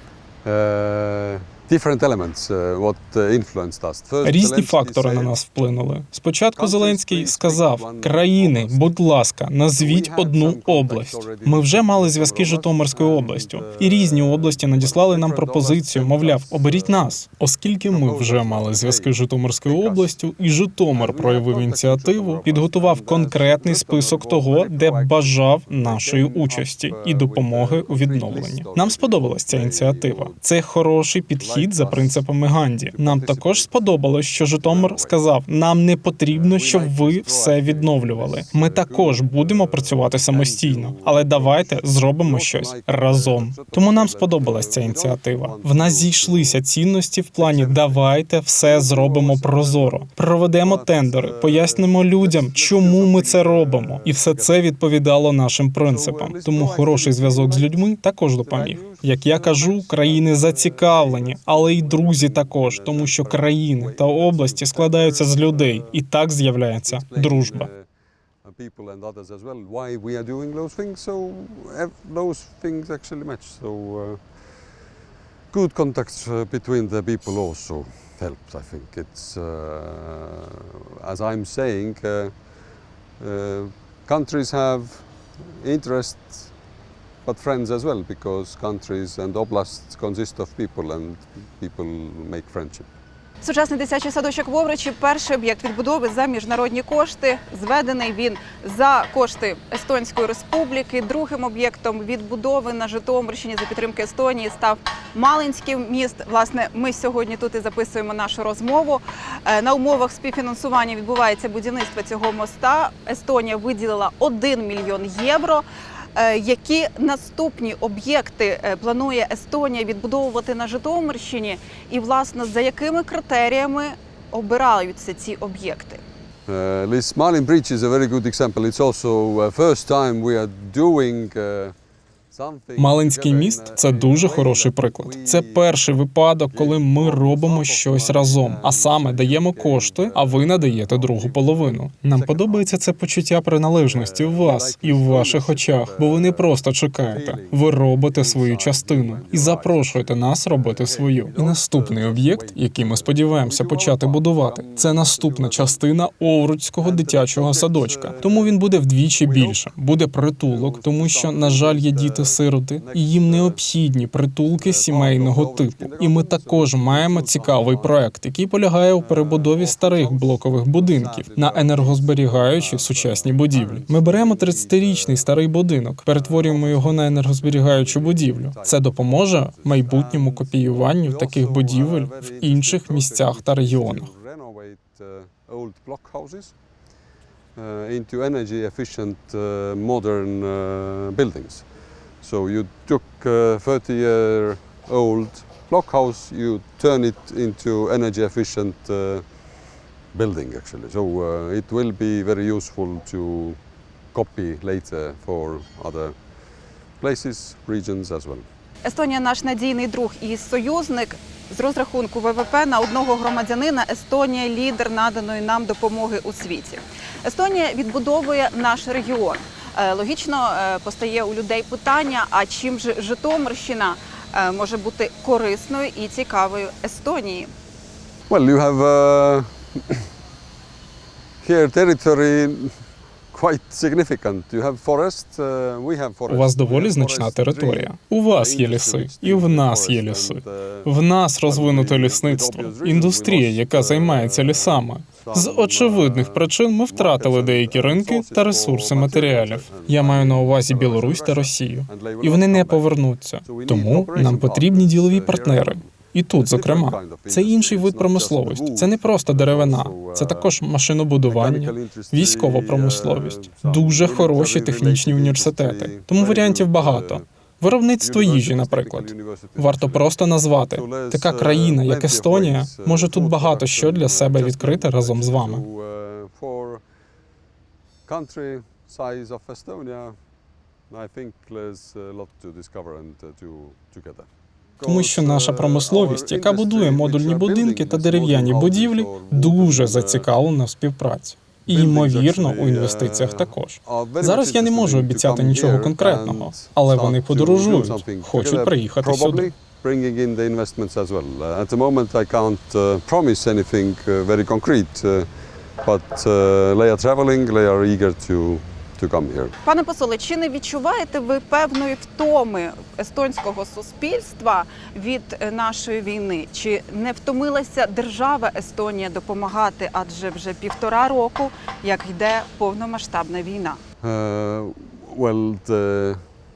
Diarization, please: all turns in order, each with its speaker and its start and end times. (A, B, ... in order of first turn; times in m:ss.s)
0:00.4-0:05.4 A
0:04.2-1:07.7 B
0:06.6-0:09.0 A
0:09.8-0:17.1 A
0:17.9-0:20.1 A
0:20.9-0:30.4 A
0:31.4-0:32.2 A
0:32.9-0:33.8 A
0:34.6-0:35.2 A
0:36.3-0:46.6 A
0:47.4-0:50.1 A
0:50.6-0:54.6 A
0:55.8-1:06.0 A
1:06.8-1:07.8 A
1:08.4-1:14.2 A
1:15.5-1:22.3 A
1:23.2-1:25.0 A
1:25.6-1:26.5 A
1:27.2-1:32.9 A
1:33.4-2:06.0 C
2:06.5-2:11.7 A
2:12.3-2:15.8 A
2:12.8-3:04.1 B
2:16.5-2:22.8 A
2:23.8-2:35.8 A
2:36.8-2:38.6 A
2:39.2-2:39.6 A
2:40.4-2:43.6 A
2:44.5-2:48.0 A
2:49.0-2:55.4 A
2:56.1-3:06.5 A
3:07.6-3:11.6 A
3:12.2-3:19.2 A
3:20.1-3:23.6 A
3:24.1-3:26.1 A
3:27.0-3:28.4 A
3:28.8-3:47.5 C
3:48.3-3:50.0 A
3:51.4-3:52.8 A
3:53.3-4:00.9 A
3:56.3-4:35.6 B
4:01.4-4:20.5 A
4:21.2-4:27.2 A
4:28.0-4:30.1 A
4:30.7-4:36.8 A
4:38.1-4:40.2 A
4:40.9-4:44.3 A
4:44.8-4:50.3 A
4:44.8-4:59.5 B
4:51.7-5:05.3 A
5:05.8-5:09.5 A
5:09.6-5:23.8 C
5:24.0-5:26.2 A